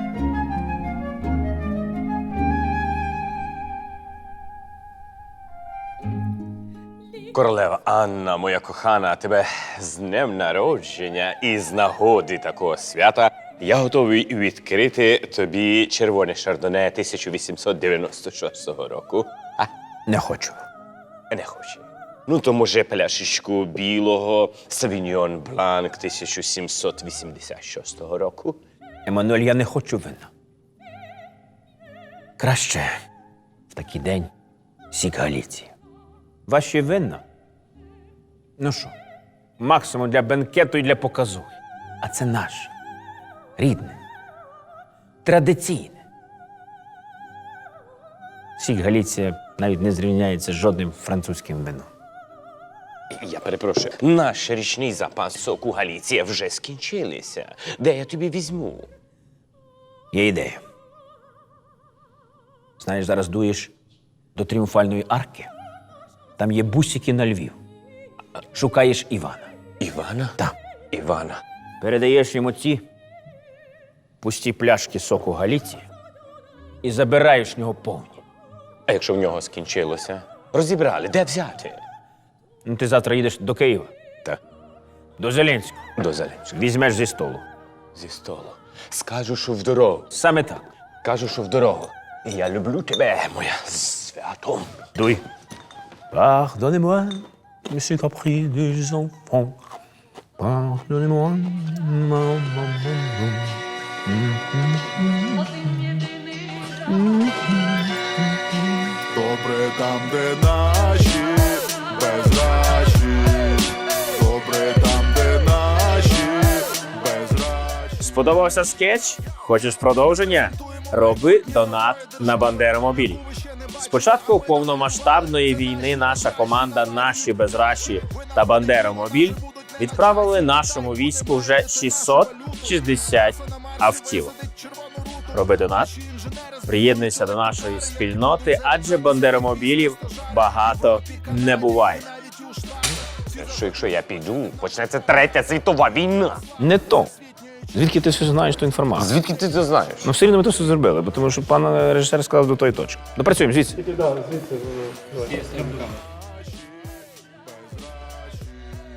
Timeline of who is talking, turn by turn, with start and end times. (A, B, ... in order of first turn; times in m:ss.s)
0:07.3-0:19.7 A
0:20.1-0:20.6 B
0:21.3-0:28.6 A
0:29.1-0:30.3 B
0:32.4-0:32.9 B
0:33.7-0:34.3 B
0:34.9-0:35.7 B
0:36.5-0:37.2 B
0:38.6-0:39.0 B
0:39.6-0:42.7 B
0:43.6-0:44.0 B
0:45.2-0:46.0 B
0:48.6-0:51.9 B
0:53.1-0:58.9 A
1:00.1-1:00.6 B
1:02.8-1:03.7 B
1:04.4-1:05.5 B
1:06.4-1:07.6 B
1:08.4-1:09.5 B
1:09.8-1:10.4 A
1:10.9-1:11.4 A
1:11.8-1:12.9 B
1:14.2-1:15.9 B
1:16.8-1:18.2 B
1:18.9-1:21.8 A
1:22.6-1:23.9 B
1:25.2-1:25.8 B
1:26.0-1:26.4 A
1:26.4-1:27.4 B
1:28.0-1:30.1 A
1:30.1-1:30.6 B
1:31.0-1:34.8 A
1:35.0-1:35.2 B
1:36.1-1:39.6 B
1:40.4-1:46.1 B
1:46.7-1:49.0 B
1:49.1-1:57.9 C
1:58.0-2:03.2 B
2:03.8-2:14.4 B
2:14.6-2:15.1 C
2:15.3-2:16.0 B
2:16.6-2:22.1 B
2:22.2-2:22.8 C
2:23.3-2:26.4 A
2:26.6-2:27.1 B
2:27.7-2:29.2 B
2:29.0-2:30.1 A
2:30.0-2:33.9 B
2:37.6-2:38.1 C